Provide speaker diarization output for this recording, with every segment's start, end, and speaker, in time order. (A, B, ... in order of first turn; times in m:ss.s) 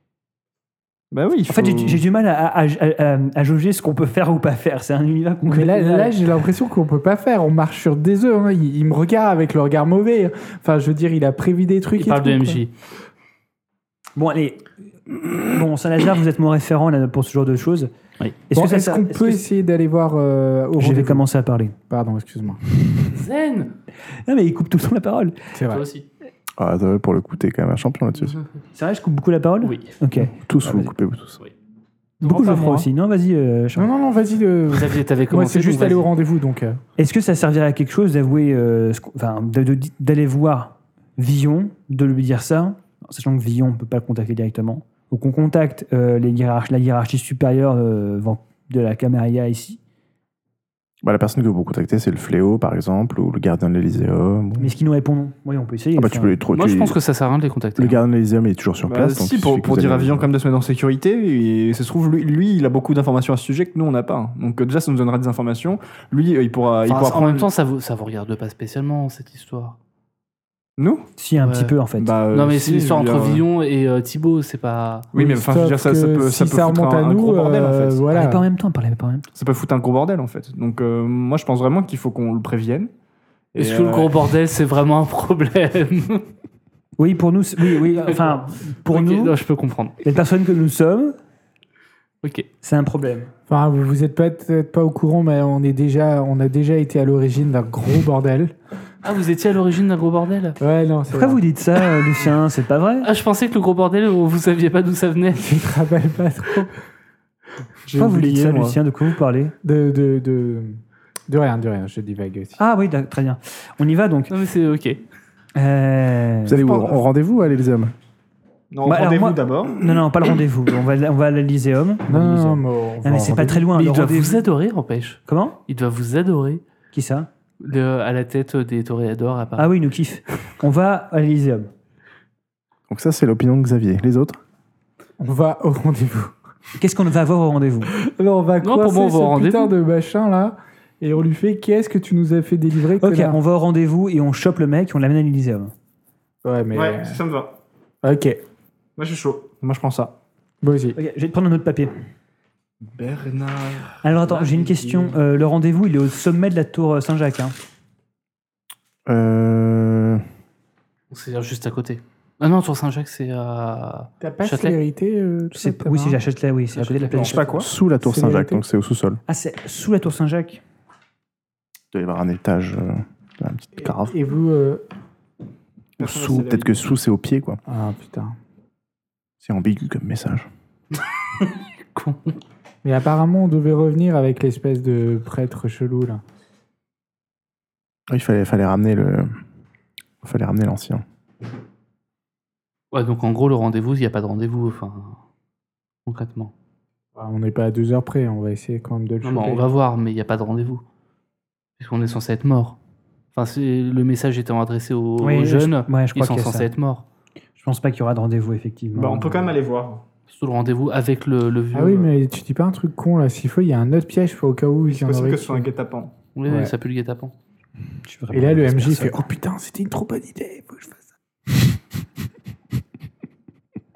0:01.1-0:02.0 A
0:01.5-0:06.2 B
0:05.5-0:12.6 C
0:12.0-0:12.7 D
0:14.2-0:14.6 B
0:15.2-0:17.9 B
0:18.5-0:19.4 B
0:18.5-0:21.2 C
0:20.8-0:21.7 B
0:21.9-0:22.6 C
0:23.1-0:23.7 D
0:24.2-0:25.4 B
0:25.5-0:25.8 C
0:25.7-0:26.0 D
0:26.6-0:28.4 E
0:28.8-0:30.9 B
0:29.6-0:29.9 D
0:30.4-0:31.4 E
0:32.2-0:33.9 B
0:32.2-0:32.8 A
0:33.7-0:36.8 C
0:34.7-0:36.1 D
0:37.0-0:49.8 B
0:51.0-0:54.7 E
0:54.6-0:56.4 B
0:56.0-0:57.0 E
0:56.5-0:58.0 D
0:57.8-1:00.3 E
0:58.8-1:07.5 A
1:06.9-1:09.8 D
1:10.8-1:11.1 A
1:11.2-1:12.1 B
1:11.4-1:11.7 D
1:12.0-1:13.4 A
1:12.3-1:15.1 D
1:15.1-1:18.0 A
1:15.1-1:18.5 C
1:18.1-1:19.2 B
1:19.3-1:22.9 A
1:23.5-1:24.2 A
1:23.6-1:26.2 D
1:27.0-1:29.3 B
1:27.7-1:30.0 D
1:30.0-1:31.2 B
1:32.6-1:33.3 B
1:33.5-1:38.5 C
1:39.0-1:40.6 D
1:40.6-1:41.4 C
1:41.1-1:43.1 B
1:43.0-1:45.6 D
1:45.4-1:46.7 C
1:47.9-1:48.8 A
1:47.9-1:49.5 B
1:49.6-1:52.6 C
1:52.6-1:54.3 B
1:54.3-1:55.0 D
1:55.5-1:56.9 B
1:56.4-1:57.9 E
1:58.7-1:59.8 A
1:58.8-2:04.4 B
2:02.1-2:03.7 C
2:03.8-2:06.6 D
2:05.3-2:05.6 B
2:06.9-2:07.3 B
2:07.6-2:09.7 D
2:09.6-2:11.7 B
2:12.9-2:14.4 E
2:15.2-2:16.3 C
2:16.8-2:17.9 B
2:18.0-2:23.4 C
2:18.6-2:19.8 D
2:23.0-2:25.7 B
2:26.4-2:27.2 C
2:26.7-2:27.6 A
2:28.0-2:28.4 C
2:29.0-2:30.2 A
2:30.6-2:31.0 C
2:30.9-2:31.9 B
2:32.8-2:35.2 A
2:34.0-2:37.5 B
2:39.1-2:40.2 E
2:41.1-2:44.8 D
2:44.2-2:46.2 C
2:45.5-2:47.6 B
2:47.1-2:47.6 A
2:47.1-2:48.6 C
2:47.6-2:49.2 E
2:49.3-2:50.6 B
2:51.9-2:54.1 E
2:53.8-2:54.8 C
2:56.0-2:57.6 E
2:56.0-2:56.8 A
2:57.7-2:58.4 C
2:59.4-3:00.5 E
3:01.4-3:02.4 D
3:02.8-3:06.2 C
3:08.1-3:09.3 E
3:10.2-3:11.0 E
3:12.9-3:15.2 D
3:16.0-3:16.5 D
3:17.2-3:19.6 C
3:19.2-3:20.8 D
3:21.8-3:22.8 D
3:23.3-3:27.0 D
3:25.2-3:26.7 B
3:27.6-3:29.5 B
3:28.9-3:30.0 A
3:30.3-3:32.1 D
3:31.7-3:35.7 C
3:34.9-3:36.1 A
3:36.4-3:37.3 D
3:36.5-3:36.7 C
3:38.0-3:39.2 B
3:38.3-3:41.0 C